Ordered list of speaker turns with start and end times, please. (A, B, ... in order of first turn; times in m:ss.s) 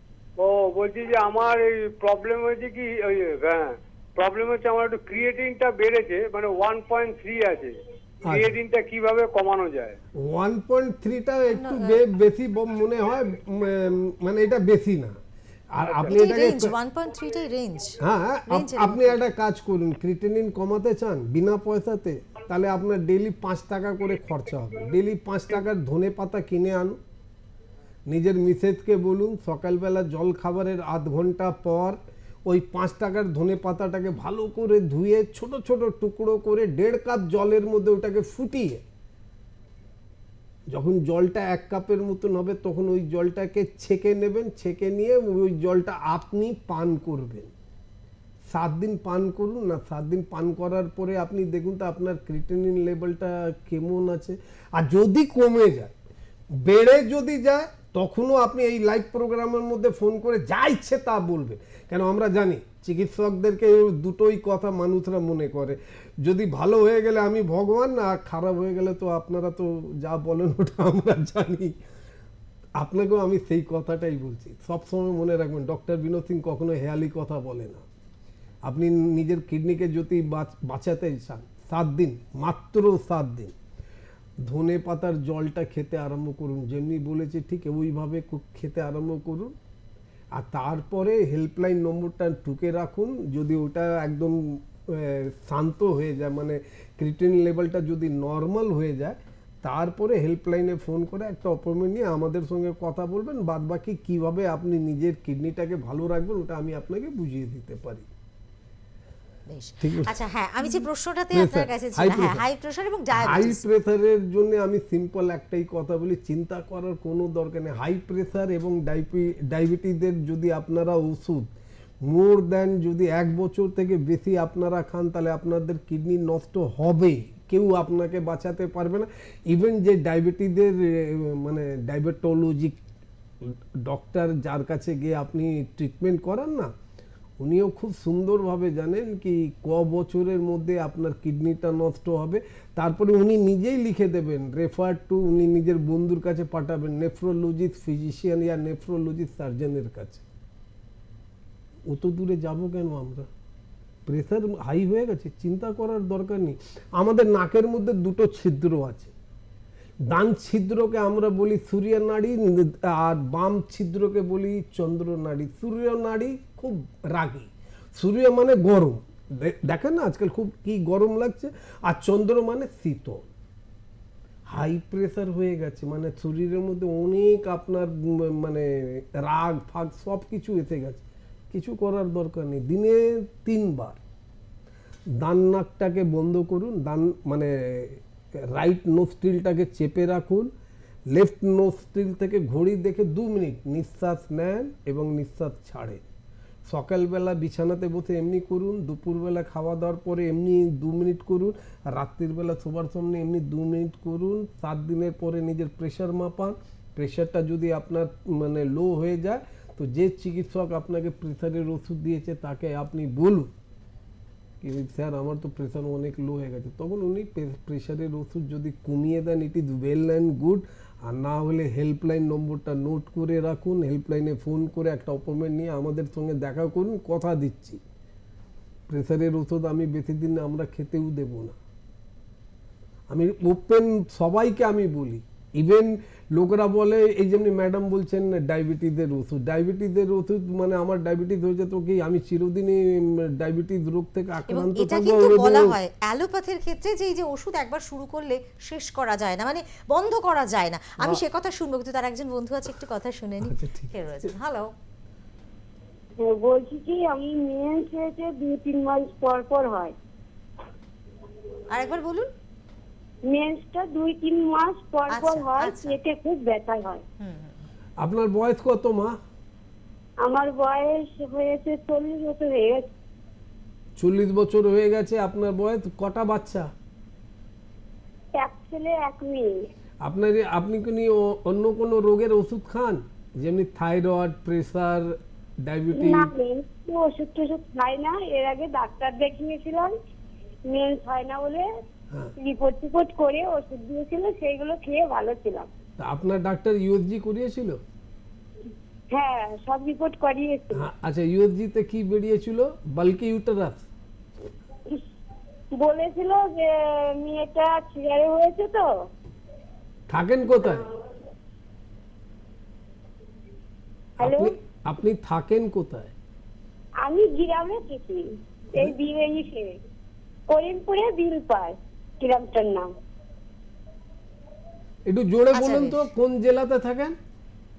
0:00.4-0:10.0 A
0:08.2-0:08.6 B
0:10.2-0:15.2 B
0:11.5-0:12.0 C
0:15.7-0:16.8 B
0:16.1-0:19.2 C
0:18.0-0:27.0 B
0:28.1-0:38.8 B
0:40.7-0:47.5 B
0:48.5-0:56.0 B
0:56.6-1:11.7 B
1:12.8-1:17.8 B
1:18.6-1:23.6 B
1:24.4-1:29.6 B
1:30.4-1:48.1 B
1:49.5-1:53.6 C
1:49.8-1:52.4 B
1:53.1-2:01.5 B
2:02.1-2:12.8 B
2:13.4-2:16.7 B
2:17.4-2:30.2 B
2:31.9-2:33.3 B
2:34.1-2:39.1 B
2:40.1-2:53.3 B
2:54.5-3:04.0 B
3:05.2-3:08.0 B
3:08.5-3:10.5 B
3:11.1-3:16.0 B
3:16.7-3:33.5 B
3:34.6-3:47.8 B
3:48.9-3:51.6 B
3:53.1-4:05.8 B
4:04.5-4:14.7 C
4:13.4-4:14.3 B
4:16.2-4:20.0 D
4:21.7-4:22.3 C
4:23.3-4:27.0 D
4:25.1-4:26.0 C
4:27.2-4:27.7 C
4:28.0-4:29.2 B
4:30.2-4:32.9 D
4:34.0-4:36.7 B
4:38.4-4:39.5 D
4:40.0-4:46.3 B
4:46.0-4:49.9 D
4:50.7-4:51.7 D
4:52.4-4:55.7 D
4:56.0-4:57.8 B
4:59.1-5:00.8 D
5:00.7-5:03.9 B
5:05.8-5:08.9 D
5:10.1-5:10.8 B
5:14.2-5:16.1 B
5:14.2-5:14.6 D
5:17.0-5:19.7 D
5:20.5-5:22.9 D
5:25.1-5:27.2 B
5:25.5-5:26.1 C